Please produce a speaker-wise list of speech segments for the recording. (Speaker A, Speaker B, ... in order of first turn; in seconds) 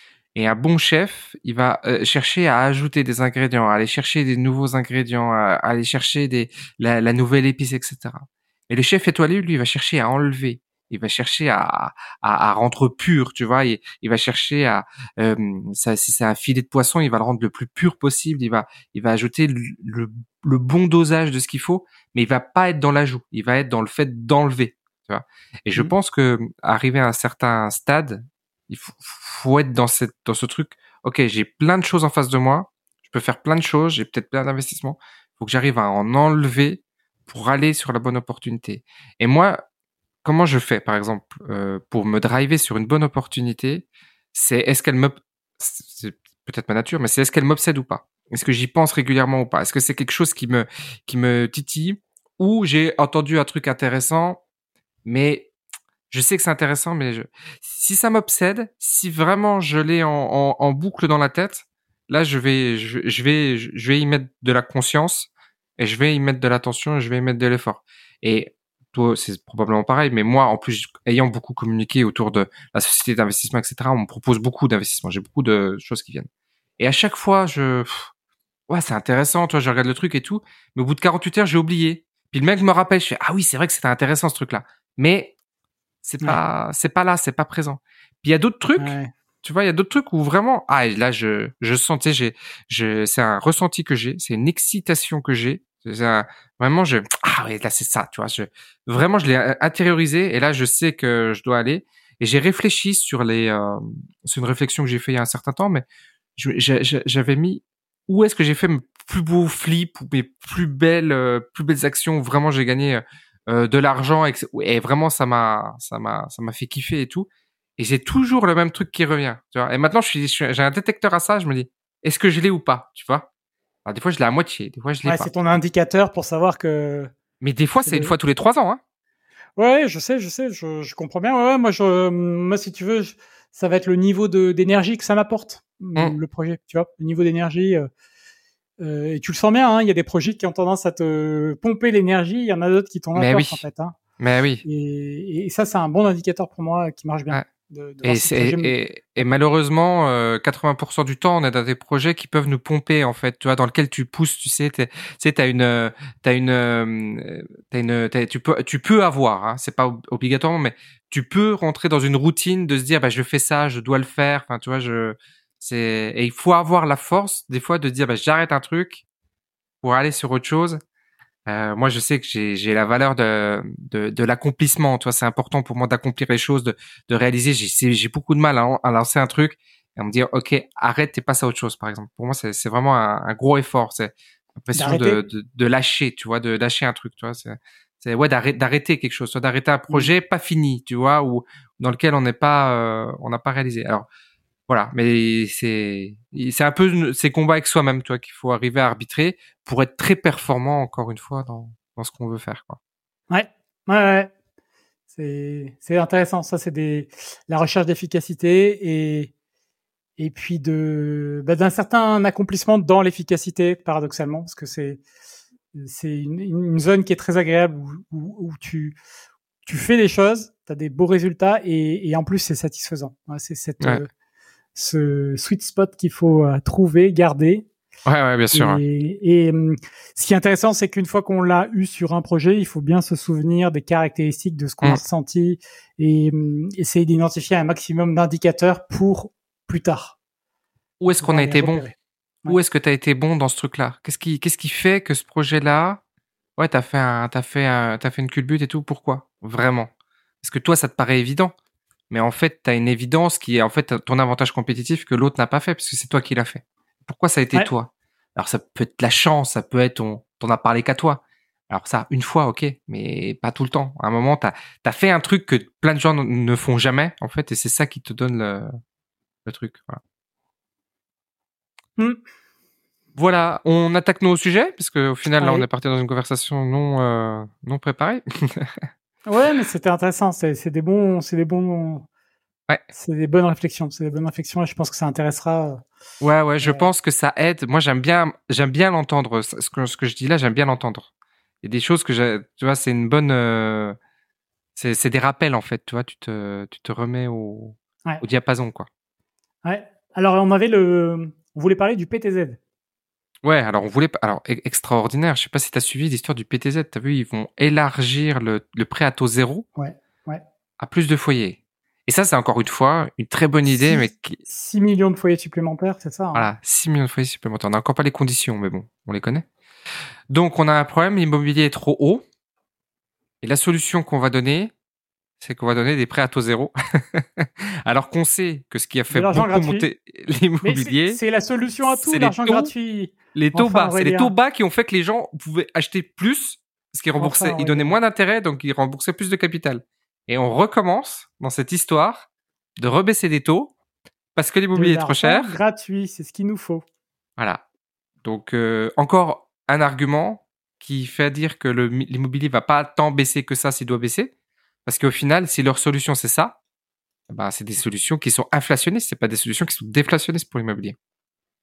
Speaker A: 0.3-39.6, 40.2-54.4, 55.0-55.5, 56.1-76.3, 76.8-78.1, 78.7-85.3, 86.0-105.8, 106.3-123.3, 123.8-125.3, 127.4-128.8, 143.1-143.6, 144.2-144.6, 148.0-169.0, 169.8-170.8, 171.5-194.1, 194.7-202.8, 228.1-228.8, 241.0-241.8, 242.5-246.0, 246.6-249.9, 250.4-251.5, 252.1-268.7, 269.4-270.0, 273.1-278.8, 286.2-291.1, 291.6-293.9, 294.8-298.9, 303.4-309.6, 310.8-314.4, 316.3-319.5, 320.3-322.2, 323.4-324.7, 325.4-331.2, 331.9-332.7, 333.3-342.2, 342.8-343.7, 344.4-345.5, 347.4-347.6, 348.2-354.3, 354.9-356.6, 357.3-360.9
Speaker B: 88.8-89.1, 125.0-127.1, 127.8-128.1, 129.6-137.9, 138.8-144.0, 144.6-149.3, 184.7-185.2, 203.3-204.3, 205.1-209.3, 210.2-215.0, 215.7-218.9, 219.7-224.1, 224.7-227.7, 228.5-240.2, 241.2-242.6, 275.4-275.6, 279.2-282.1, 282.9-285.8, 286.6-286.9, 299.6-302.6, 309.8-310.4, 313.6-316.5, 329.1-329.9, 330.6-334.3, 337.2-337.9, 344.7-346.8